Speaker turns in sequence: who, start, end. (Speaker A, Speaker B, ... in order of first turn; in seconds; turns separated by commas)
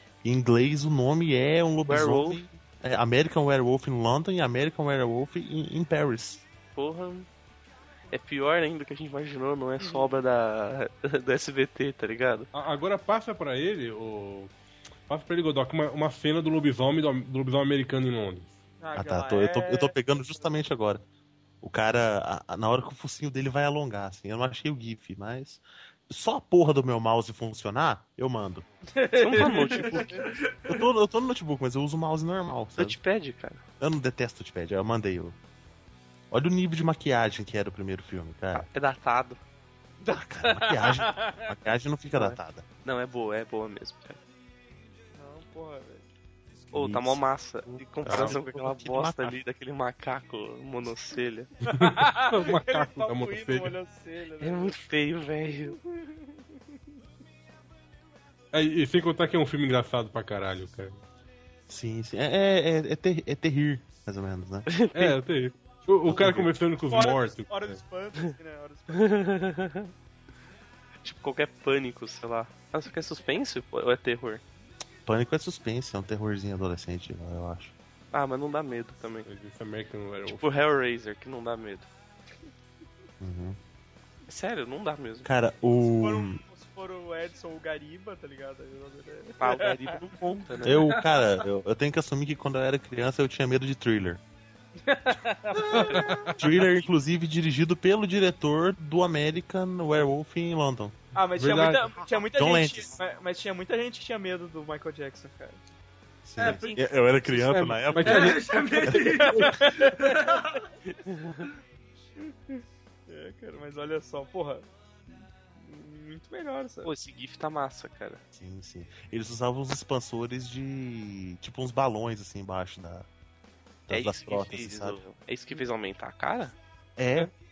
Speaker A: 0.2-6.4, Speaker B: 1.9-2.4, Speaker B: 6.7-7.3, Speaker B: 8.1-12.5, Speaker C: 9.8-10.1, Speaker D: 12.5-14.5, Speaker D: 15.1-18.6, Speaker C: 18.8-19.9, Speaker A: 18.9-21.0, Speaker A: 21.6-28.6, Speaker C: 28.9-30.2, Speaker B: 29.2-30.2, Speaker E: 29.7-30.8, Speaker A: 30.7-33.0, Speaker B: 32.8-33.6, Speaker A: 33.8-35.4, Speaker A: 36.3-38.7, Speaker B: 38.5-39.4, Speaker C: 40.0-41.5, Speaker A: 40.1-42.6, Speaker B: 42.1-44.2, Speaker C: 45.1-46.0, Speaker A: 46.7-47.2, Speaker B: 46.7-51.5, Speaker A: 48.0-49.4, Speaker D: 51.6-53.7, Speaker C: 51.7-54.8, Speaker B: 54.4-55.8, Speaker C: 55.7-56.3, Speaker D: 58.5-61.0, Speaker A: 61.7-64.7, Speaker B: 64.7-65.2, Speaker D: 64.9-67.8, Speaker A: 66.1-66.5, Speaker C: 66.9-69.3, Speaker B: 68.9-69.9, Speaker B: 71.0-74.4, Speaker A: 75.0-77.7, Speaker B: 78.1-79.3, Speaker D: 79.2-80.5, Speaker B: 80.3-81.9, Speaker A: 83.2-83.6, Speaker B: 84.3-85.3, Speaker A: 85.2-86.4, Speaker C: 86.0-90.0, Speaker B: 89.4-90.8, Speaker A: 90.6-94.2, Speaker E: 90.6-91.4, Speaker C: 94.8-96.1, Speaker E: 95.6-96.1, Speaker D: 95.7-96.5, Speaker A: 96.4-101.0, Speaker C: 101.2-105.6, Speaker D: 101.4-101.9, Speaker A: 102.1-103.0, Speaker A: 106.2-108.4, Speaker E: 106.4-106.8, Speaker B: 106.5-106.8, Speaker D: 107.3-108.5, Speaker E: 108.0-110.7, Speaker C: 109.0-110.4, Speaker D: 109.3-109.6, Speaker B: 111.0-111.5, Speaker C: 112.2-116.9, Speaker B: 116.8-118.2, Speaker A: 118.3-123.1, Speaker A: 123.9-125.0, Speaker B: 123.9-126.5, Speaker A: 127.0-127.3